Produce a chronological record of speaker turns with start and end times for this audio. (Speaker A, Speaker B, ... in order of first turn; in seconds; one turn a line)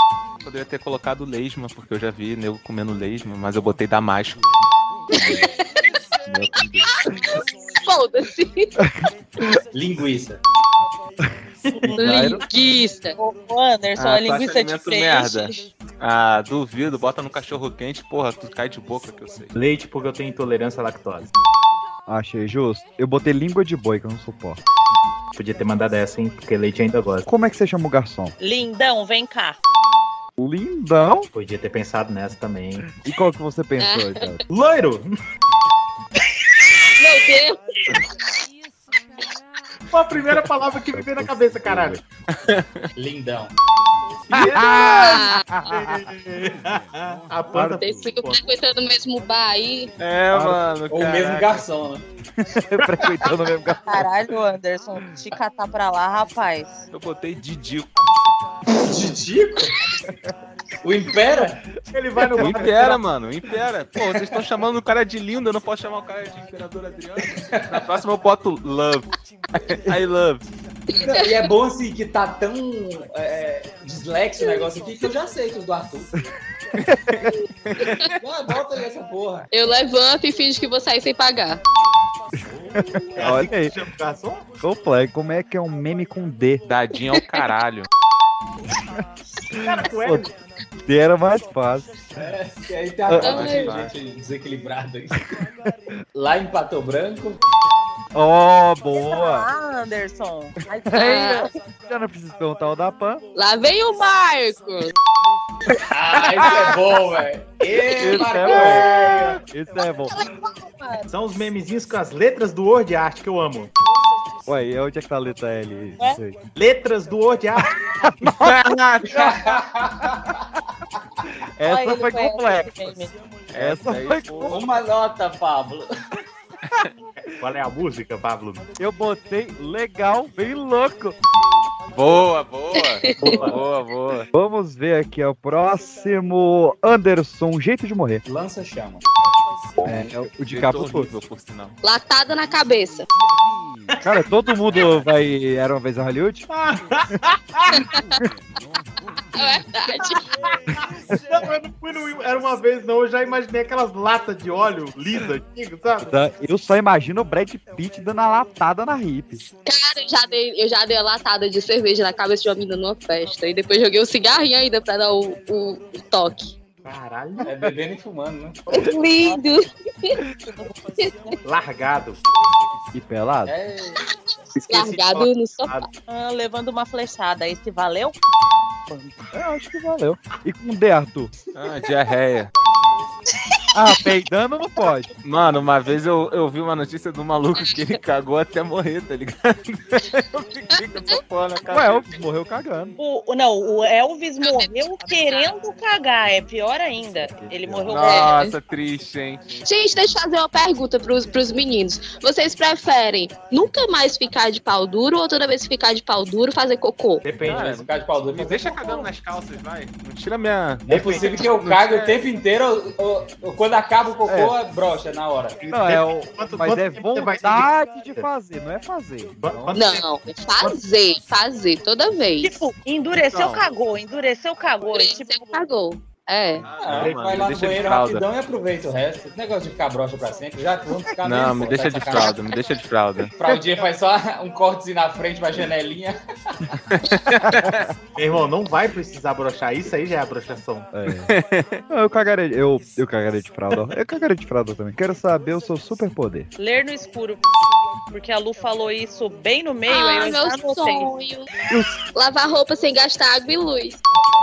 Speaker A: 0.4-4.4
Speaker B: 5.1-5.7
Speaker A: 6.3-6.9
Speaker B: 7.2-8.7
Speaker C: 9.7-10.4
Speaker D: 11.7-12.0
Speaker E: 11.9-12.4
Speaker B: 11.9-13.2
Speaker F: 13.2-15.6
Speaker A: 14.0-19.6
Speaker D: 19.6-21.3
Speaker E: 22.1-24.6
Speaker D: 25.3-27.3
Speaker E: 27.3-28.3
Speaker F: 28.4-29.6
Speaker E: 30.4-31.3
Speaker D: 31.3-32.9
Speaker E: 33.0-34.4
Speaker B: 33.8-34.3
Speaker D: 34.5-35.1
Speaker B: 37.0-38.0
Speaker D: 39.9-42.0
Speaker E: 40.9-42.0
Speaker A: 42.3-42.9
Speaker C: 43.0-43.5
Speaker D: 44.3-44.9
Speaker E: 44.3-46.0
Speaker B: 44.6-45.4
Speaker D: 45.7-48.4
Speaker E: 47.5-47.8
Speaker B: 47.6-49.9
Speaker A: 50.0-51.7
Speaker E: 50.3-50.6
Speaker C: 50.9-52.0
Speaker E: 52.6-54.0
Speaker F: 53.9-56.9
Speaker A: 56.9-57.9
Speaker C: 58.8-59.8
Speaker C: 60.8-61.6
Speaker D: 61.9-63.0
Speaker E: 62.4-62.8
Speaker A: 62.4-69.1
Speaker C: 67.3-67.8
Speaker A: 69.7-70.4
Speaker C: 71.0-76.1
Speaker B: 71.0-71.4
Speaker A: 77.1-77.9
Speaker B: 77.8-78.1
Speaker C: 78.2-79.5
Speaker B: 79.5-81.6
Speaker E: 82.9-83.7
Speaker D: 83.2-84.5
Speaker E: 84.6-86.7
Speaker A: 86.7-87.9
Speaker D: 89.5-90.3
Speaker E: 89.5-90.3
Speaker E: 90.9-92.0
Speaker C: 92.2-95.2
Speaker B: 93.2-93.7
Speaker A: 93.2-93.9
Speaker C: 96.2-97.4
Speaker E: 98.2-99.5
Speaker F: 98.9-101.5
Speaker E: 100.9-101.3
Speaker B: 101.0-101.5
Speaker E: 101.9-103.2
Speaker B: 103.3-104.9
Speaker C: 105.9-109.4
Speaker E: 107.9-110.2
Speaker F: 110.1-111.1
Speaker D: 111.1-113.7
Speaker E: 114.5-116.4
Speaker D: 116.6-117.7
Speaker E: 118.0-118.6
Speaker A: 118.3-119.4
Speaker C: 119.1-120.4
Speaker E: 121.6-122.8
Speaker F: 121.6-123.1
Speaker A: 123.5-124.7
Speaker E: 123.6-124.6
Speaker C: 124.5-125.9
Speaker D: 127.3-128.7
Speaker E: 128.8-131.2
Speaker A: 131.9-134.3
Speaker B: 132.8-133.4
Speaker D: 133.2-133.6
Speaker E: 134.3-138.2
Speaker C: 138.3-139.0
Speaker E: 139.8-141.1
Speaker A: 140.5-141.8
Speaker B: 141.8-143.1
Speaker E: 144.0-146.5
Speaker D: 146.5-147.8
Speaker B: 149.3-150.2
Speaker D: 151.3-156.1
Speaker E: 156.1-159.5
Speaker B: 159.7-166.6
Speaker D: 166.8-167.5
Speaker C: 167.4-168.6
Speaker B: 168.7-170.2
Speaker F: 169.1-169.5
Speaker F: 170.5-170.8
Speaker D: 171.4-172.2
Speaker E: 172.9-173.5
Speaker C: 173.5-174.0
Speaker D: 174.6-175.9
Speaker B: 174.7-175.9
Speaker F: 176.1-178.2
Speaker E: 179.3-181.3
Speaker A: 181.6-182.5
Speaker E: 183.7-185.1
Speaker A: 185.2-192.1
Speaker E: 191.7-192.9
Speaker F: 193.0-198.3
Speaker B: 194.4-194.7
Speaker B: 195.2-195.5
Speaker E: 197.2-198.2
Speaker A: 197.9-199.6
Speaker B: 198.0-198.5
Speaker B: 199.6-207.2
Speaker D: 207.2-207.8
Speaker C: 207.4-209.1
Speaker A: 207.4-212.2
Speaker C: 210.9-215.6
Speaker D: 210.9-211.3
Speaker E: 214.3-214.6
Speaker D: 215.6-218.3
Speaker E: 215.7-219.6
Speaker D: 219.4-220.0
Speaker B: 219.7-222.6
Speaker F: 222.4-225.4
Speaker A: 223.1-223.7
Speaker B: 224.8-226.7
Speaker A: 226.6-228.2
Speaker C: 226.7-232.4
Speaker D: 227.0-227.2
Speaker A: 231.2-233.3
Speaker C: 233.4-236.2
Speaker A: 236.9-237.8
Speaker E: 237.5-237.8
Speaker D: 238.2-240.9
Speaker E: 240.9-241.3
Speaker A: 241.3-241.8
Speaker E: 241.9-246.5
Speaker F: 246.6-247.4
Speaker F: 248.1-251.1
Speaker B: 249.9-251.5
Speaker E: 251.7-252.0
Speaker B: 252.1-254.0